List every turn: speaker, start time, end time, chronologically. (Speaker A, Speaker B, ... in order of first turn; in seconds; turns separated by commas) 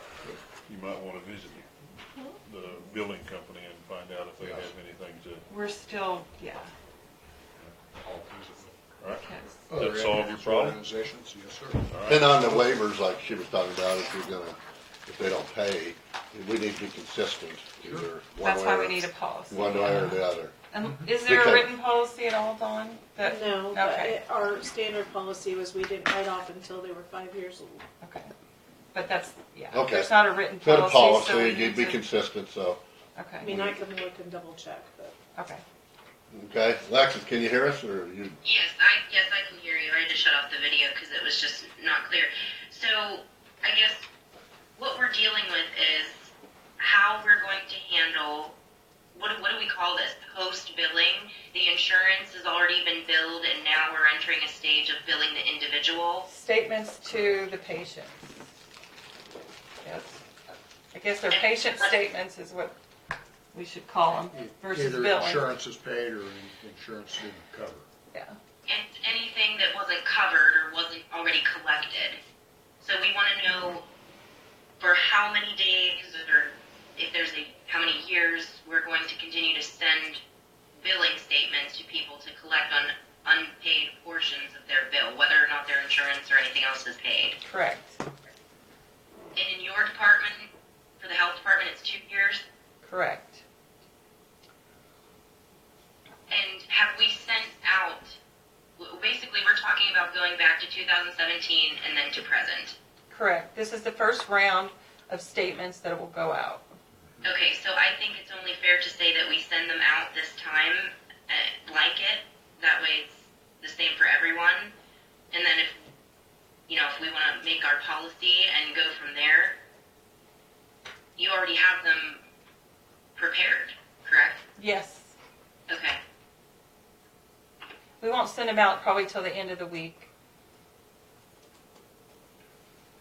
Speaker A: 0.6-1.7, Speaker A: 2.4-5.5, Speaker B: 4.4-4.7, Speaker C: 5.5-6.7, Speaker B: 7.6-8.8, Speaker A: 9.0-10.9, Speaker C: 9.2-9.6, Speaker B: 9.7-11.9, Speaker A: 11.9-12.3, Speaker D: 12.1-20.5, Speaker C: 18.4-24.2, Speaker B: 20.8-21.1, Speaker D: 21.1-21.6, Speaker E: 23.2-27.8, Speaker C: 28.0-28.3, Speaker C: 28.9-32.0, Speaker D: 29.7-32.8, Speaker C: 33.1-33.5, Speaker E: 33.4-35.1, Speaker D: 33.4-33.8, Speaker C: 35.3-35.6, Speaker D: 36.3-38.4, Speaker F: 38.4-44.0, Speaker F: 44.8-48.6, Speaker F: 49.1-56.3, Speaker C: 56.3-58.3, Speaker C: 59.8-60.2, Speaker C: 60.9-62.7, Speaker F: 61.3-61.9, Speaker C: 63.5-65.4, Speaker B: 64.3-67.9, Speaker C: 68.1-68.4, Speaker F: 68.7-72.2, Speaker F: 72.8-73.8, Speaker F: 74.8-80.2, Speaker F: 80.8-87.4, Speaker C: 87.4-88.0, Speaker F: 89.3-92.4, Speaker C: 92.8-93.4, Speaker F: 96.3-98.2, Speaker F: 98.8-102.8, Speaker C: 103.1-106.8, Speaker F: 107.2-114.7, Speaker F: 115.3-115.8, Speaker F: 116.7-119.6, Speaker F: 121.2-122.2, Speaker F: 123.2-124.4, Speaker C: 124.6-125.1, Speaker F: 125.7-126.0, Speaker C: 128.0-130.1